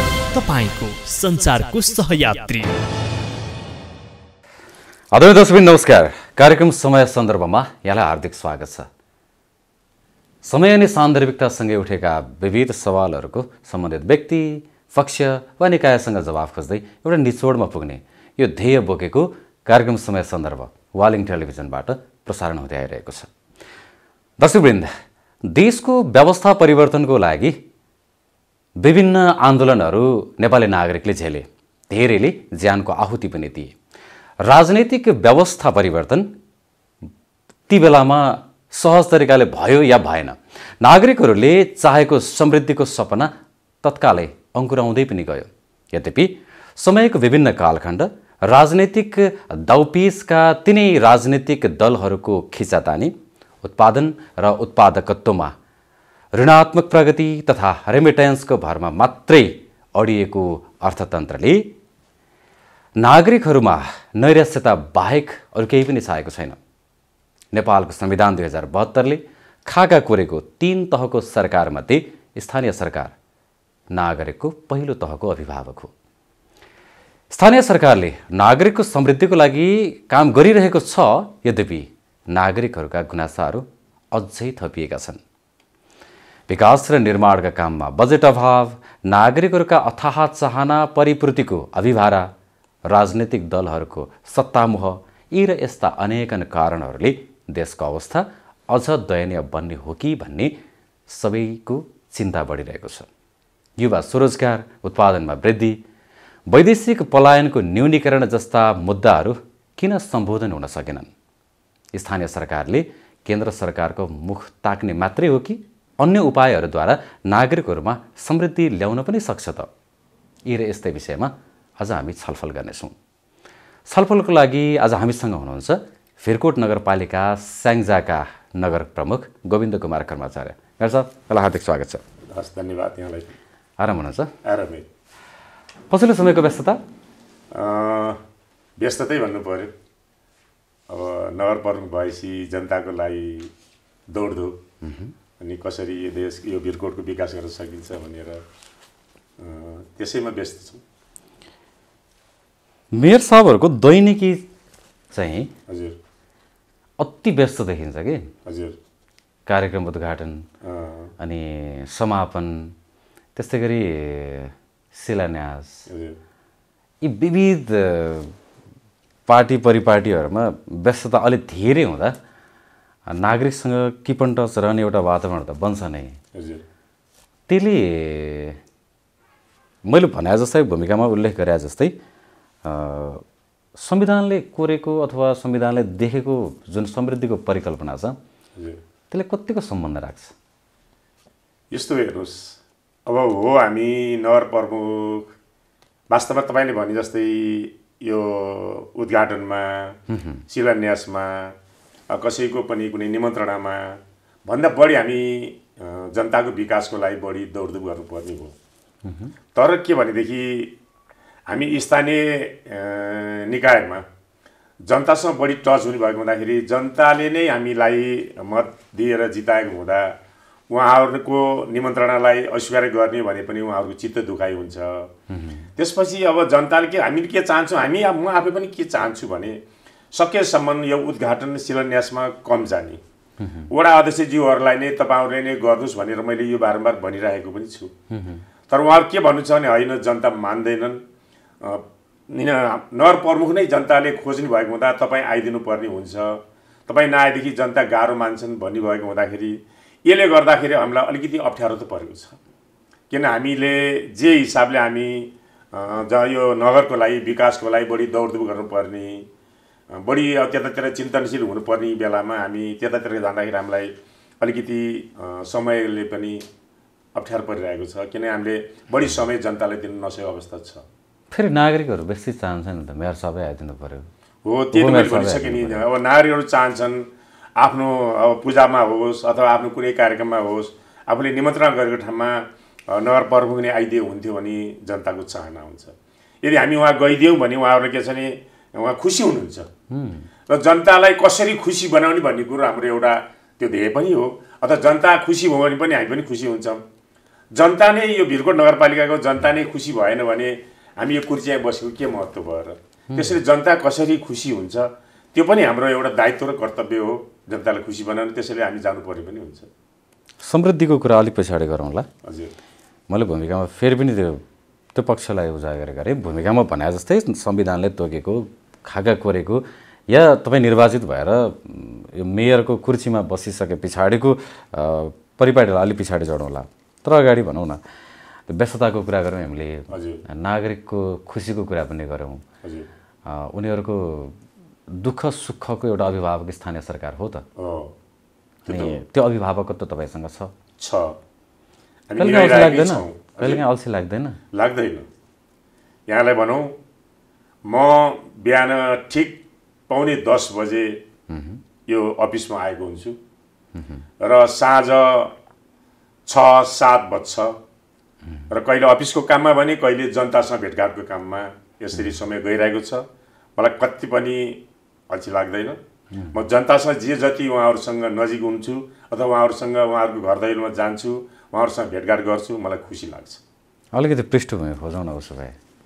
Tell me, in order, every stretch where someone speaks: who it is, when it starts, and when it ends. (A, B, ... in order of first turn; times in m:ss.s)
0:00.3-0:02.7 A
0:05.1-0:08.9 B
0:10.4-0:23.3 B
0:24.4-0:24.9 B
0:25.4-0:27.6 B
0:28.8-0:33.7 B
0:34.4-0:36.3 B
0:37.7-0:43.3 B
0:43.8-0:55.5 B
0:56.3-1:01.7 B
1:03.0-1:06.6 B
1:07.5-1:13.1 B
1:13.9-1:15.9 B
1:17.3-1:25.2 B
1:26.5-1:32.3 B
1:32.9-1:40.6 B
1:41.1-1:43.1 B
1:43.8-1:45.8 B
1:46.5-1:51.1 B
1:51.9-1:59.7 B
2:00.5-2:02.9 B
2:03.9-2:12.0 B
2:12.3-2:13.3 C
2:13.8-2:14.3 B
2:14.4-2:14.8 C
2:15.9-2:16.8 B
2:17.5-2:18.2 C
2:18.8-2:19.7 C
2:20.9-2:23.5 C
2:24.1-2:24.6 C
2:24.8-2:25.1 B
2:25.4-2:28.4 C
2:29.4-2:30.8 C
2:32.9-2:34.5 B
2:35.1-2:35.5 B
2:35.7-2:36.0 C
2:37.0-2:38.3 B
2:38.4-2:38.7 C
2:39.4-2:40.4 B
2:40.6-2:41.1 C
2:41.2-2:42.7 B
2:43.4-2:45.8 B
2:45.9-2:46.2 C
2:47.0-2:48.3 B
2:49.3-2:52.1 B
2:53.1-2:56.1 B
2:56.3-2:56.6 C
2:57.5-2:58.6 B
2:59.8-3:01.9 B
3:02.6-3:03.2 B
3:03.8-3:08.2 B
3:09.1-3:10.3 B
3:11.7-3:15.3 C
3:16.1-3:20.0 C
3:20.1-3:20.4 B
3:20.5-3:21.5 C
3:22.1-3:28.5 C
3:29.0-3:29.3 B
3:29.5-3:30.7 C
3:31.5-3:34.0 C
3:34.8-3:40.2 C
3:40.7-3:45.1 C
3:45.3-3:45.6 B
3:45.8-3:49.6 C
3:50.1-3:53.0 C
3:53.4-3:53.7 B
3:53.7-3:57.9 C
3:58.1-3:58.4 B
3:58.7-4:01.0 C
4:01.6-4:12.4 C
4:13.1-4:19.2 C
4:19.9-4:26.4 C
4:27.2-4:30.8 C
4:31.3-4:34.0 B
4:34.4-4:37.0 C
4:34.7-4:35.8 B
4:37.6-4:49.7 C
4:49.9-4:50.3 B
4:50.5-4:56.8 C
4:57.5-5:09.7 C
5:03.1-5:03.4 B
5:10.4-5:12.1 B
5:12.2-5:12.5 C
5:13.1-5:14.4 B
5:14.9-5:27.8 B
5:28.5-5:32.4 B
5:29.9-5:30.2 C
5:32.6-5:32.9 C
5:33.2-5:34.4 B
5:34.9-5:37.4 B
5:37.6-5:37.9 C
5:38.6-5:39.0 C
5:38.7-5:40.5 B
5:40.8-5:41.2 C
5:42.1-5:43.6 C
5:42.2-5:44.4 B
5:44.5-5:45.1 C
5:46.1-5:46.7 C
5:47.6-5:51.0 C
5:51.3-5:51.6 B
5:51.9-5:53.2 C
5:53.7-5:54.0 B
5:54.2-5:55.3 C
5:56.3-5:57.6 C
5:58.5-6:03.0 C
6:03.6-6:05.8 C
6:06.1-6:06.4 B
6:06.3-6:13.4 C
6:13.9-6:15.5 B